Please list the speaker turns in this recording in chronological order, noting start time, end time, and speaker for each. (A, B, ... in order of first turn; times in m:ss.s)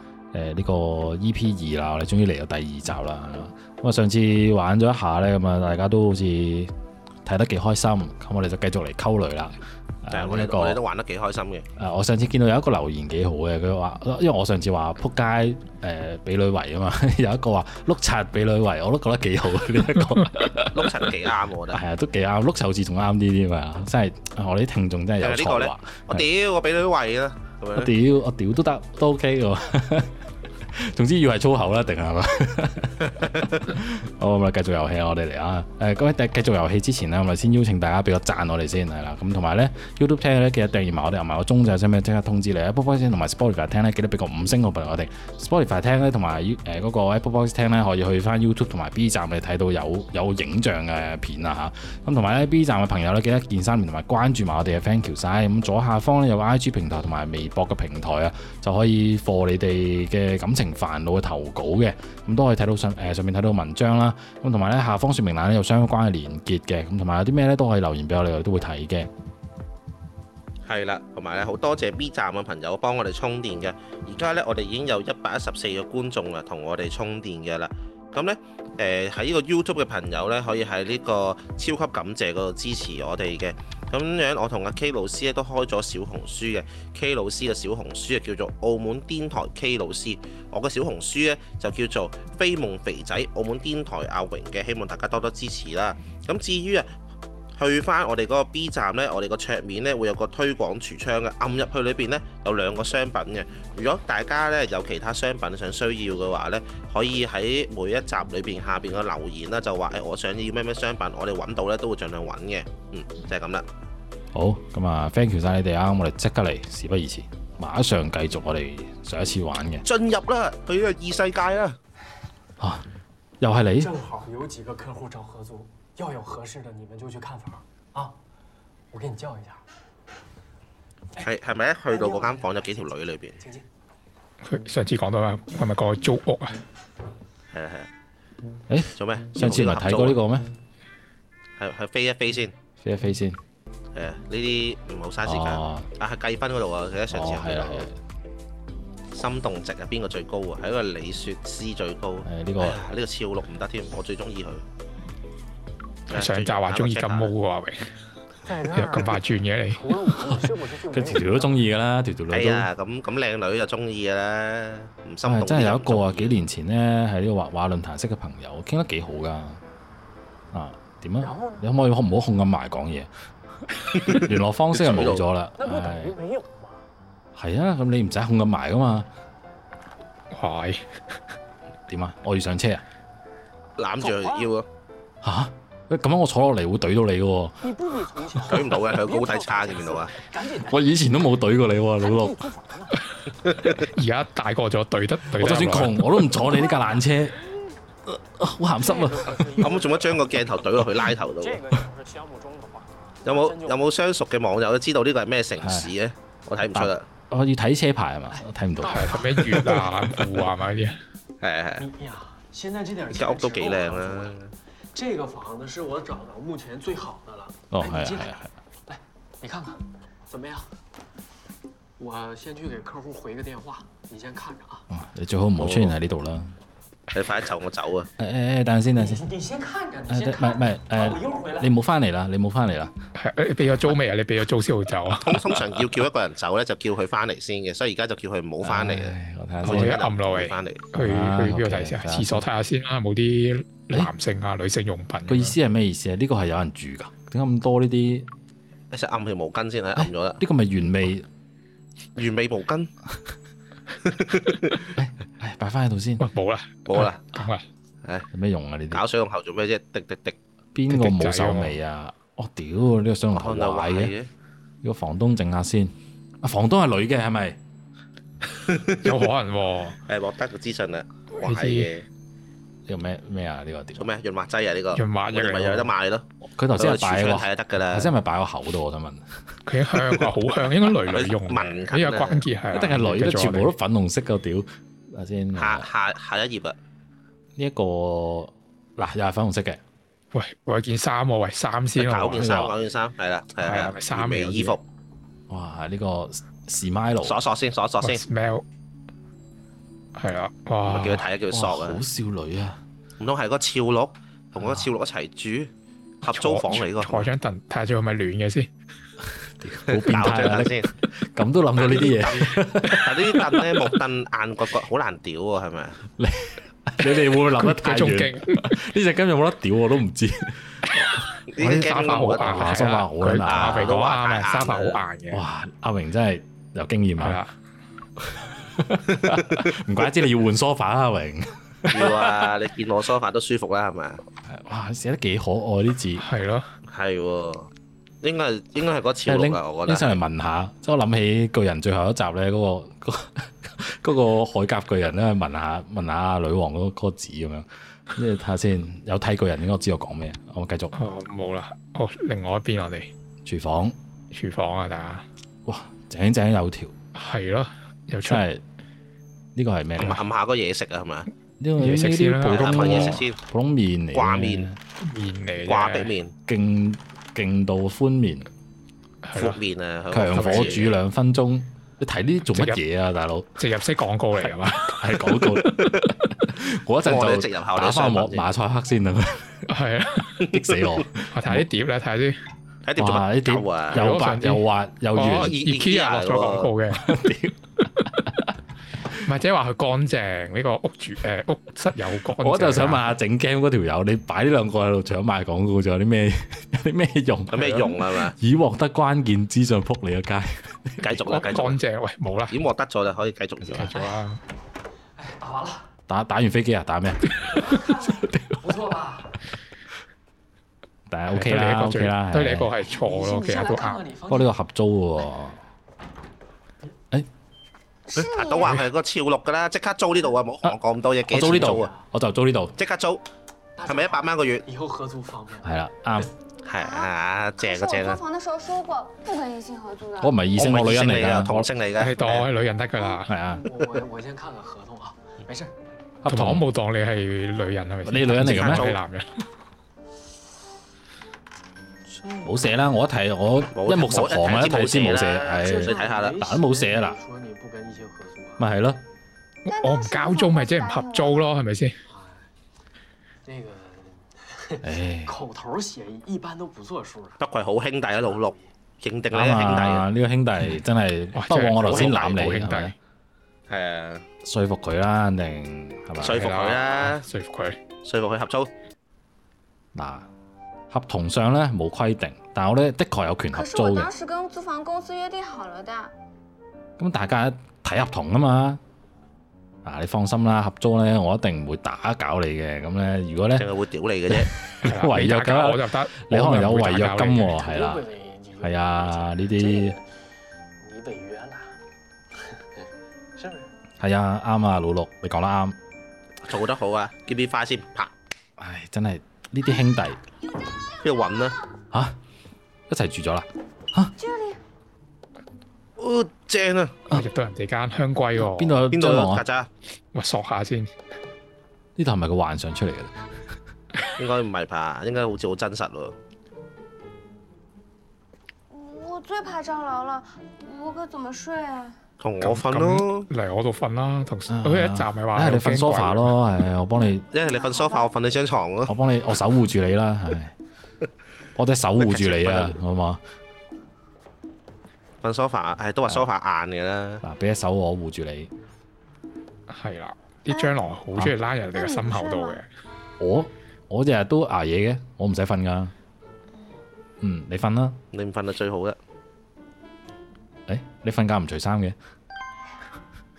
0:00.3-0:06.7 A
0:07.2-0:10.8 A
0:10.1-0:11.7 B
0:11.8-0:20.8 A
0:20.7-0:21.8 B
0:21.7-0:26.2 A
0:25.2-0:27.9 B
0:27.8-0:30.1 A
0:30.7-1:09.1 A
1:10.6-1:36.9 B
1:37.6-1:53.6 B
1:54.3-1:59.8 A
1:59.8-2:01.8 B
2:02.6-2:02.8 A
2:03.4-2:03.9 A
2:03.8-2:08.2 C
2:08.9-2:09.6 C
2:11.2-2:13.4 B
2:11.9-2:12.9 C
2:13.4-2:13.7 C
2:14.4-2:16.6 D
2:17.5-2:17.9 B
2:18.7-2:20.5 A
2:19.0-2:20.2 B
2:21.6-2:22.5 B
2:22.8-2:23.4 A
2:23.9-2:27.9 B
2:25.2-2:25.9 A
2:27.1-2:28.0 A
2:29.1-2:34.6 B
2:32.2-2:32.8 A
2:36.1-2:37.3 B
2:36.1-2:37.9 D
2:38.4-2:41.6 C
2:38.7-2:39.8 D
2:40.9-2:42.7 A
2:42.3-2:46.4 B
2:45.2-2:49.6 A
2:50.5-2:53.1 A
2:51.2-2:51.6 C
2:53.9-2:56.2 A
2:54.0-2:55.2 B
2:55.6-2:56.8 C
2:57.4-2:59.1 A
3:00.3-3:01.1 D
3:01.9-3:02.8 A
3:03.8-3:04.6 B
3:04.0-3:04.5 C
3:05.2-3:07.6 A
3:07.6-3:10.8 C
3:08.5-3:10.1 B
3:10.6-3:12.4 A
3:12.0-3:13.0 C
3:13.9-3:16.1 D
3:15.4-3:17.4 A
3:18.0-3:19.5 A
3:18.8-3:20.2 C
3:19.6-3:21.6 B
3:21.4-3:23.8 C
3:23.2-3:27.0 B
3:25.6-3:25.9 A
3:26.7-3:29.8 A
3:28.3-3:30.2 C
3:28.9-3:31.0 D
3:31.4-3:31.8 B
3:31.8-3:40.7 C
3:33.1-3:34.5 B
3:37.7-3:38.5 A
3:42.0-3:44.8 C
3:44.9-3:46.5 A
3:45.6-3:45.9 B
3:47.1-3:48.1 B
3:48.2-3:49.2 A
3:48.9-3:51.7 C
3:50.1-3:52.9 A
3:53.1-3:55.5 D
3:55.2-4:00.8 B
3:58.6-3:59.9 A
3:59.6-4:05.6 D
4:00.9-4:02.4 A
4:05.3-4:08.3 A
4:08.9-4:10.4 B
4:10.0-4:11.3 A
4:12.2-4:12.9 B
4:14.0-4:14.7 B
4:15.0-4:16.2 A
4:16.2-4:17.6 D
4:16.9-4:17.2 B
4:18.3-4:19.0 A
4:18.9-4:20.4 B
4:20.7-4:24.1 A
4:20.9-4:21.8 D
4:23.3-4:24.3 B
4:24.8-4:27.6 A
4:28.7-4:29.1 B
4:29.0-4:30.0 D
4:30.0-4:32.0 B
4:31.4-4:31.9 D
4:32.9-4:34.1 A
4:34.0-4:38.1 B
4:34.9-4:35.9 D
4:36.4-4:39.2 A
4:39.7-4:43.7 D
4:41.0-4:42.4 B
4:42.7-4:45.9 A
4:45.6-4:46.8 B
4:47.6-4:49.8 A
4:50.3-4:52.5 D
4:52.0-4:54.8 B
4:52.4-4:52.7 A
4:53.6-4:54.8 D
4:55.5-4:57.4 A
4:57.2-4:58.2 B
4:58.0-4:58.6 D
5:00.2-5:01.2 D
5:00.9-5:02.0 B
5:01.5-5:02.8 A
5:03.2-5:05.7 B
5:04.6-5:04.9 A
5:06.2-5:07.3 B
5:06.3-5:08.7 D
5:09.6-5:13.6 A
5:09.9-5:10.9 B
5:10.1-5:10.4 D
5:11.8-5:16.0 B
5:16.2-5:23.9 A
5:17.1-5:18.8 D
5:21.0-5:25.4 D
5:21.5-5:22.7 B
5:23.4-5:25.0 B
5:25.3-5:27.4 A
5:27.2-5:27.5 D
5:28.3-5:32.5 A
5:31.9-5:34.2 B
5:34.5-5:36.2 A
5:36.2-5:36.7 D
5:36.9-5:37.7 B
5:38.2-5:40.2 B
5:39.2-5:50.9 A
5:50.9-5:53.1 D
5:53.4-5:53.9 A
5:54.3-5:55.2 D
5:55.6-5:56.9 A
5:57.1-5:58.4 D
5:58.2-5:58.6 A
5:59.6-6:00.2 A
6:00.0-6:01.3 B
6:01.6-6:04.8 A
6:01.8-6:03.3 D
6:02.5-6:03.4 B
6:04.1-6:04.7 B
6:05.0-6:06.1 D
6:05.6-6:06.3 B
6:06.5-6:08.5 A
6:09.2-6:09.6 D
6:09.3-6:10.9 B
6:10.1-6:13.6 A
6:10.3-6:10.8 D
6:12.5-6:12.8 D
6:13.6-6:15.0 D
6:15.0-6:19.6 A
6:17.0-6:18.4 B
6:19.7-6:20.5 D
6:20.4-6:21.6 A
6:21.3-6:22.4 D
6:22.8-6:24.0 B
6:23.0-6:25.5 A
6:23.9-6:27.0 D
6:25.2-6:26.7 B
6:26.9-6:28.5 A
6:29.2-6:33.0 D
6:32.4-6:37.8 A
6:37.5-6:38.4 B
6:37.6-6:37.9 D
6:38.4-6:41.2 A
6:41.0-6:41.8 B
6:41.3-6:42.6 D
6:42.5-6:43.9 B
6:43.7-6:44.4 D
6:45.2-6:45.8 C
6:46.1-6:47.6 A
6:47.5-6:49.3 C
6:48.2-6:48.6 A
6:51.1-6:52.7 A
6:51.3-6:54.0 D
6:52.9-6:54.6 C
6:54.3-6:55.6 A
6:58.1-6:58.8 E
6:58.3-7:01.9 B
6:58.6-6:58.8 D
7:01.3-7:02.7 A
7:01.4-7:02.0 C
7:02.8-7:03.2 B
7:03.8-7:06.2 C
7:03.8-7:04.6 B
7:05.6-7:06.3 A
7:06.6-7:08.2 B
7:06.8-7:10.4 E
7:10.2-7:11.7 A
7:10.6-7:12.4 B
7:12.0-7:13.3 D
7:13.2-7:13.6 A
7:13.6-7:15.7 C
7:16.2-7:16.6 A
7:16.3-7:19.4 D
7:18.0-7:18.9 A
7:18.4-7:19.0 B
7:22.2-7:27.2 A
7:23.7-7:26.4 B
7:25.6-7:28.7 C
7:28.6-7:29.0 A
7:29.6-7:32.0 D
7:29.7-7:31.5 E
7:32.1-7:32.5 C
7:33.4-7:37.4 C
7:34.8-7:35.4 A
7:37.4-7:40.1 B
7:38.1-7:38.7 C
7:39.3-7:42.9 A
7:41.3-7:42.9 D
7:41.9-7:42.2 B
7:43.7-7:44.2 B
7:44.4-7:46.4 A
7:46.2-7:47.2 B
7:46.2-7:47.8 D
7:48.0-7:48.7 B
7:49.9-7:50.3 A
7:50.9-7:54.1 A
7:53.5-7:56.1 E
7:57.0-7:58.8 A
7:59.8-8:03.6 A
8:03.6-8:04.5 B
8:04.3-8:08.1 A
8:04.8-8:07.5 D
8:07.5-8:10.0 C
8:08.6-8:09.9 A
8:10.8-8:11.7 C
8:12.4-8:12.8 C
8:13.4-8:13.7 C
8:14.0-8:15.8 A
8:16.5-8:18.1 B
8:18.6-8:20.2 A
8:21.0-8:21.6 B
8:22.9-8:24.1 A
8:24.2-8:24.6 E
8:26.0-8:27.0 B
8:27.1-8:28.8 D
8:28.4-8:29.4 A
8:28.9-8:29.7 B
8:30.1-8:30.9 D
8:32.0-8:33.1 A
8:34.2-8:36.1 B
8:38.7-8:42.0 E
8:42.2-8:43.3 B
8:42.4-8:46.3 D
8:44.5-8:47.2 A
8:47.3-8:48.9 B
8:47.3-8:48.2 E
8:48.9-8:50.5 A
8:51.6-8:53.2 A
8:52.0-8:52.8 B
8:55.2-8:57.2 B
8:57.2-8:58.5 A
8:59.7-9:02.7 D
9:00.5-9:00.7 E
9:01.7-9:02.6 E
9:03.2-9:05.9 A
9:07.2-9:08.0 A
9:08.1-9:09.0 B
9:10.7-9:11.9 A